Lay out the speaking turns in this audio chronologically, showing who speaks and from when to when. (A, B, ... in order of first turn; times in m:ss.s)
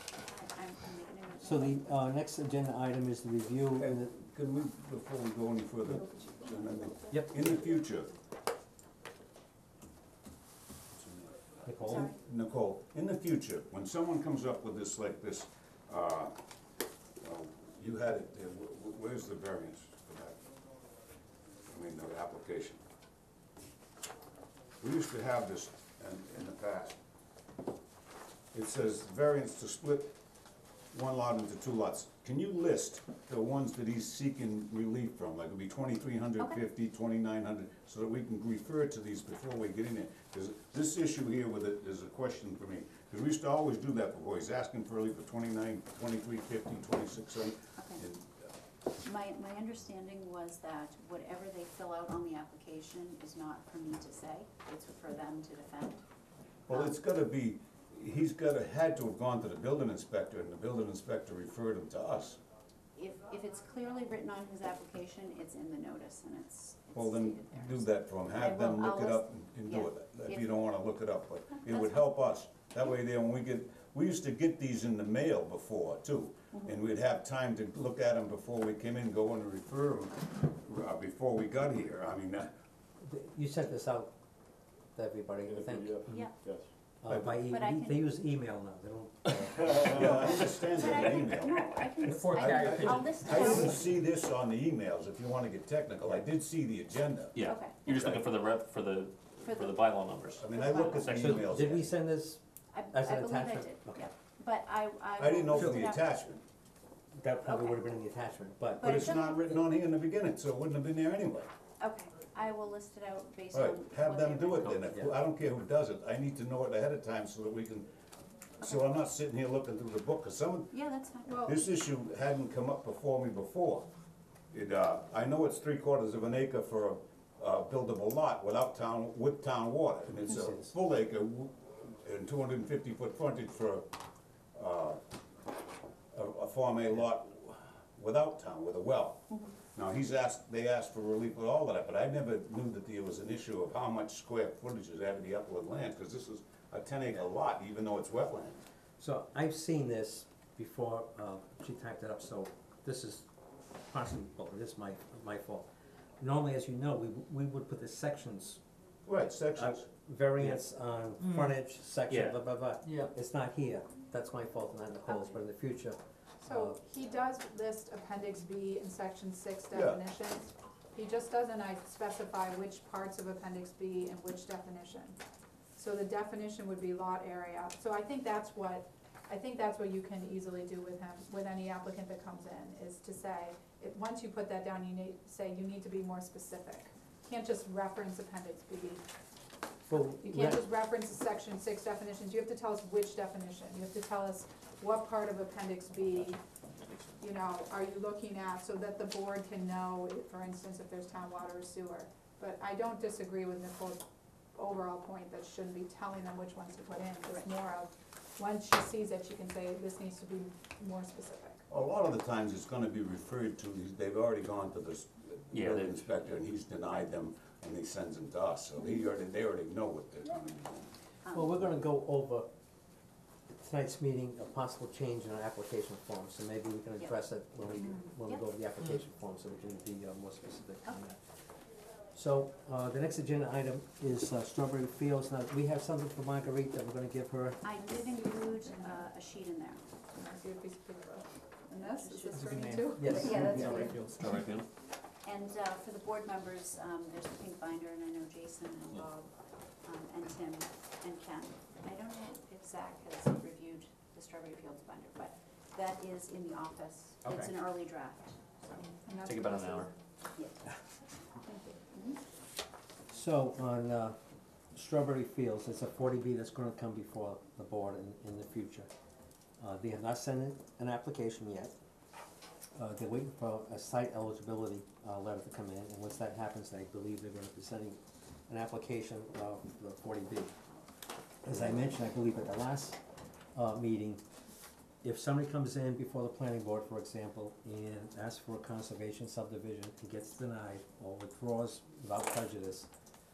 0:00.2-0:01.9 A
0:01.4-0:04.1 B
0:03.8-0:08.1 C
0:06.0-0:07.7 D
0:10.9-0:16.4 C
0:11.7-0:12.1 B
0:17.2-0:20.4 C
0:21.7-0:22.8 C
0:24.8-0:27.0 C
0:28.5-0:30.1 C
0:30.9-0:48.5 C
0:47.8-0:48.0 A
0:49.0-0:56.0 A
0:56.7-1:02.4 C
1:03.0-1:10.6 A
1:07.0-1:22.5 C
1:23.0-1:24.1 B
1:25.0-1:26.3 B
1:25.5-1:26.6 E
1:26.1-1:26.3 A
1:27.0-1:30.4 B
1:27.1-1:27.4 C
1:27.5-1:28.1 A
1:29.8-1:31.7 C
1:29.9-1:33.9 A
1:32.2-1:33.5 E
1:32.2-1:38.3 C
1:37.4-1:41.7 F
1:37.4-1:37.9 A
1:39.4-1:39.8 A
1:40.4-1:41.9 C
1:40.5-1:41.1 A
1:41.2-1:44.1 B
1:42.7-1:46.0 A
1:45.2-1:46.4 C
1:45.5-1:45.9 B
1:47.2-1:49.2 B
1:47.4-1:47.9 A
1:48.8-1:49.5 A
1:48.8-1:51.5 C
1:51.8-1:54.8 A
1:53.5-1:57.9 C
1:58.6-2:00.8 C
2:00.7-2:01.3 A
2:01.3-2:01.6 D
2:01.4-2:03.9 C
2:04.5-2:13.9 C
2:10.3-2:10.7 B
2:14.5-2:15.0 C
2:16.1-2:28.6 C
2:29.0-2:33.3 B
2:33.9-2:35.7 B
2:36.2-2:38.6 B
2:39.1-2:39.9 C
2:39.6-2:46.0 B
2:42.1-2:42.4 F
2:46.4-2:55.2 D
2:46.5-2:46.8 B
2:49.7-2:50.0 C
2:55.8-3:09.0 D
3:09.9-3:10.7 B
3:09.9-3:16.4 D
3:17.2-3:31.6 D
3:31.7-3:40.9 C
3:35.5-3:36.1 F
3:41.2-3:41.7 A
3:41.3-3:42.5 B
3:43.6-3:51.2 B
3:47.8-3:48.4 A
3:52.1-3:57.6 B
3:57.6-3:59.9 A
3:58.2-3:59.0 D
4:00.1-4:03.8 D
4:01.7-4:04.1 A
4:02.4-4:04.0 B
4:03.6-4:04.7 F
4:05.2-4:09.3 A
4:09.8-4:18.9 A
4:17.2-4:17.5 F
4:19.0-4:19.9 D
4:19.2-4:19.9 F
4:20.4-4:20.7 A
4:21.4-4:21.8 D
4:21.9-4:22.2 A
4:23.1-4:24.2 B
4:24.7-4:28.9 B
4:29.6-4:31.8 B
4:32.8-4:40.5 B
4:41.4-4:43.0 B
4:43.5-4:44.2 B
4:45.0-4:52.9 B